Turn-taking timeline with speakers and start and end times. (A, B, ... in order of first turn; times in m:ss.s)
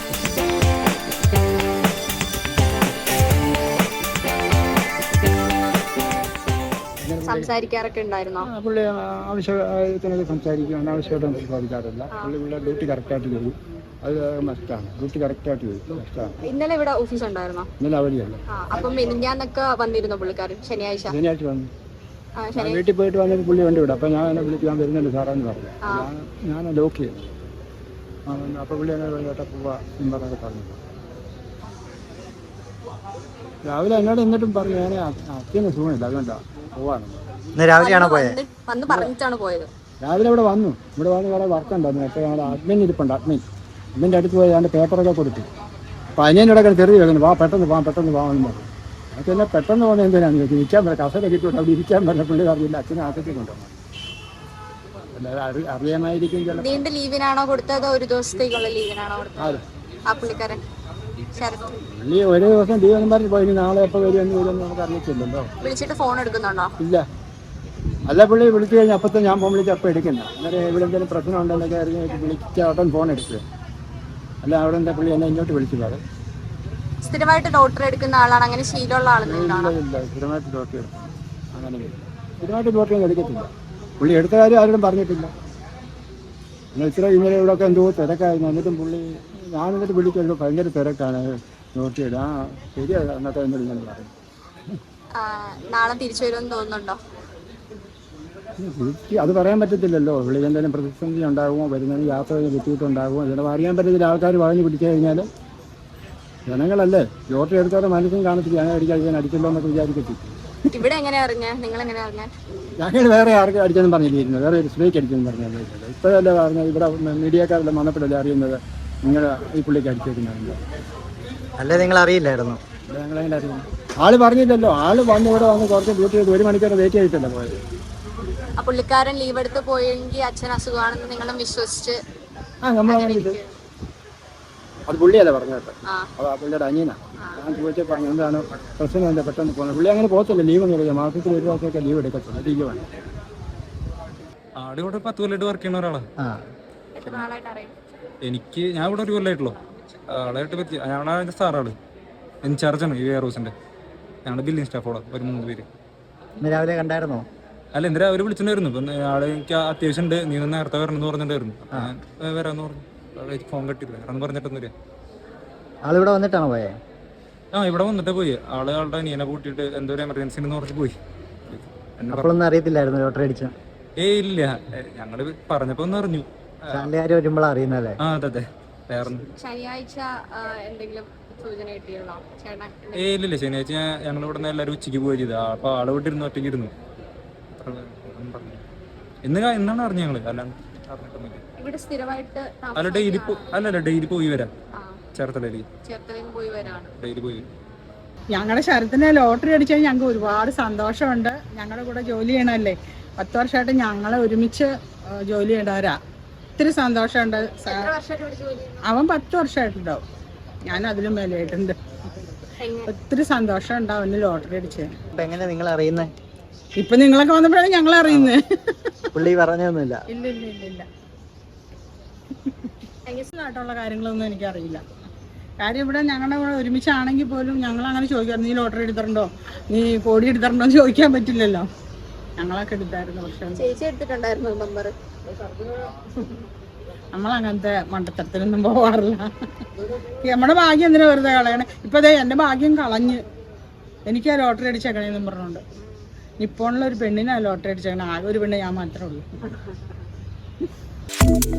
0:07.0-0:07.5 A
0:07.2-0:08.5 B
0:08.4-0:16.4 A
0:16.5-0:17.7 B
0:17.8-0:18.4 A
0:18.5-0:21.1 B
0:21.1-0:21.7 A
0:22.4-0:22.8 B
0:22.6-0:27.3 A
0:25.8-0:26.1 B
0:28.3-0:30.8 A
0:33.6-0:37.2 A
0:37.6-0:38.4 C
0:37.8-0:39.7 B
0:40.0-0:43.4 A
0:44.0-0:45.5 A
0:46.2-0:53.8 A
0:55.2-0:56.9 A
0:56.6-1:00.6 B
1:01.4-1:01.8 B
1:01.8-1:05.5 A
1:05.6-1:06.7 B
1:08.1-1:13.4 A
1:14.4-1:16.0 A
1:17.0-1:19.8 B
1:19.2-1:25.3 A
1:26.8-1:34.1 A
1:35.2-1:37.0 B
1:38.6-1:45.3 A
1:46.5-1:50.4 A
1:50.7-1:52.3 B
1:52.8-2:00.6 A
2:01.6-2:02.6 C
2:02.9-2:07.6 A
2:08.6-2:12.0 B
2:12.6-2:13.4 A
2:12.8-2:13.5 B
2:14.9-2:22.8 A
2:17.2-2:17.5 B
2:24.6-2:26.0 D
2:27.0-2:27.7 B
2:28.2-2:29.6 D
2:30.1-2:31.8 D
2:32.4-2:33.5 D
2:34.3-2:35.7 D
2:36.4-2:37.2 C
2:37.7-2:44.7 D
2:45.8-2:46.7 C
2:47.5-2:51.0 D
2:51.5-2:52.4 D
2:52.1-2:53.5 C
2:54.0-2:56.9 D
2:56.7-2:58.0 C
2:58.0-2:59.3 D
2:59.4-3:03.1 B
3:03.0-3:06.7 D
3:07.6-3:08.6 D
3:09.2-3:11.4 D
3:11.6-3:13.5 B
3:12.8-3:14.5 D
3:14.7-3:15.0 B
3:15.1-3:15.7 D
3:15.8-3:16.9 B
3:16.6-3:17.4 D
3:18.3-3:26.0 E
3:26.6-3:27.9 E
3:27.6-3:28.8 B
3:28.8-3:30.0 E
3:30.7-3:31.8 E
3:32.6-3:32.9 B
3:32.9-3:35.0 E
3:35.1-3:36.1 C
3:36.8-3:38.8 E
3:38.1-3:38.4 C
3:39.1-3:40.0 C
3:40.1-3:40.9 E
3:43.3-3:44.8 E
3:45.6-3:51.6 E
3:52.4-3:53.7 E
3:53.6-3:54.9 B
3:57.1-3:59.3 E
4:00.2-4:03.2 E
4:04.1-4:05.6 E
4:06.4-4:09.2 E